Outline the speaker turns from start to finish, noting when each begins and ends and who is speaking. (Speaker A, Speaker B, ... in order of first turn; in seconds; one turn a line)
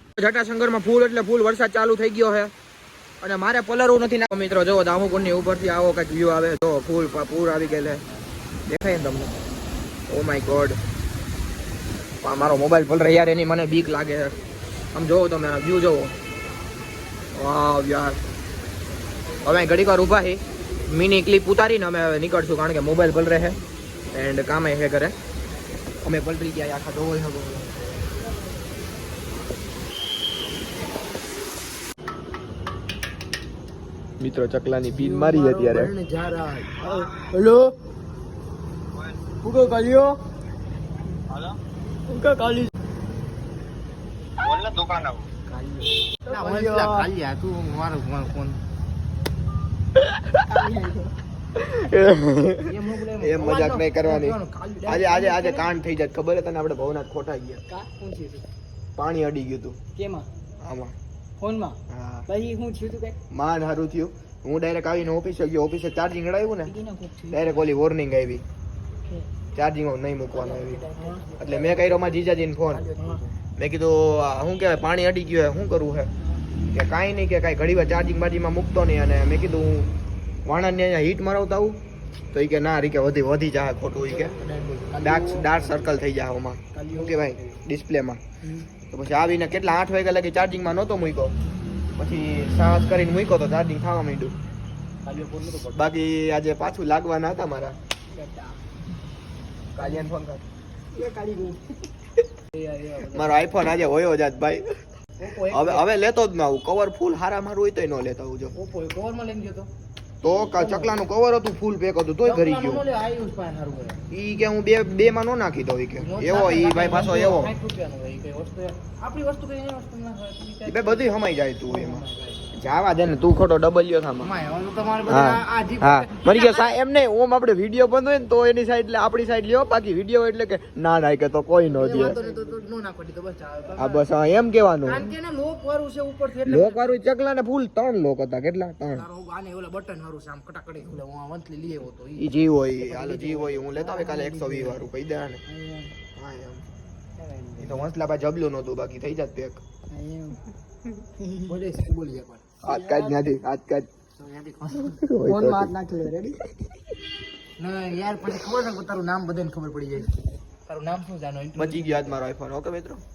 Speaker A: 0.2-2.5
Speaker A: 3.2-8.0
Speaker A: 8.7-9.3
Speaker A: 10.1-10.8
Speaker A: 12.2-14.3
Speaker A: 14.9-16.1
Speaker A: 17.3-18.2
Speaker A: 19.4-23.6
Speaker A: 24.1-25.1
Speaker A: 26.0-27.7
Speaker A: 34.2-35.9
Speaker B: 34.9-37.7
Speaker A: 39.4-40.1
Speaker B: 39.5-39.9
Speaker A: 42.1-42.7
Speaker A: 44.4-45.2
Speaker B: 45.5-48.6
Speaker A: 46.3-47.0
Speaker A: 49.9-50.5
Speaker C: 50.5-51.1
Speaker A: 51.5-57.6
Speaker B: 52.6-55.7
Speaker C: 57.7-58.5
Speaker A: 59.0-59.8
Speaker C: 60.0-60.3
Speaker A: 60.6-61.0
Speaker C: 61.4-63.2
Speaker A: 61.9-62.3
Speaker A: 63.3-66.7
Speaker C: 66.6-67.7
Speaker A: 67.3-68.4
Speaker A: 69.5-70.8
Speaker C: 70.3-72.0
Speaker A: 71.4-72.8
Speaker C: 72.7-73.2
Speaker B: 73.0-73.2
Speaker A: 73.6-76.1
Speaker A: 76.7-79.9
Speaker A: 80.5-81.8
Speaker A: 82.3-84.3
Speaker B: 84.1-85.7
Speaker A: 85.0-88.2
Speaker B: 86.7-87.6
Speaker A: 88.9-91.3
Speaker A: 92.0-94.3
Speaker B: 95.0-96.0
Speaker A: 95.7-97.8
Speaker C: 98.1-98.6
Speaker A: 99.7-100.4
Speaker B: 101.0-101.5
Speaker C: 101.0-101.5
Speaker B: 102.5-103.8
Speaker A: 103.1-104.7
Speaker B: 105.2-105.9
Speaker A: 105.5-108.5
Speaker B: 108.5-109.7
Speaker A: 110.2-112.8
Speaker B: 110.4-111.0
Speaker B: 112.2-114.0
Speaker A: 114.1-117.5
Speaker B: 116.0-122.5
Speaker A: 120.7-124.3
Speaker B: 124.2-126.8
Speaker A: 125.1-132.2
Speaker B: 131.7-134.1
Speaker A: 133.8-135.1
Speaker B: 134.8-137.0
Speaker A: 136.4-139.1
Speaker B: 138.9-142.3
Speaker A: 142.2-145.4
Speaker B: 142.8-144.9
Speaker C: 145.5-145.9
Speaker A: 146.2-146.6
Speaker B: 147.2-147.9
Speaker A: 147.6-149.6
Speaker C: 149.9-150.5
Speaker C: 151.1-151.6
Speaker B: 151.5-152.5
Speaker A: 152.6-153.9
Speaker C: 152.7-153.2
Speaker B: 154.2-155.0
Speaker A: 154.8-155.7
Speaker C: 155.2-156.4
Speaker B: 157.6-162.2
Speaker A: 161.6-163.0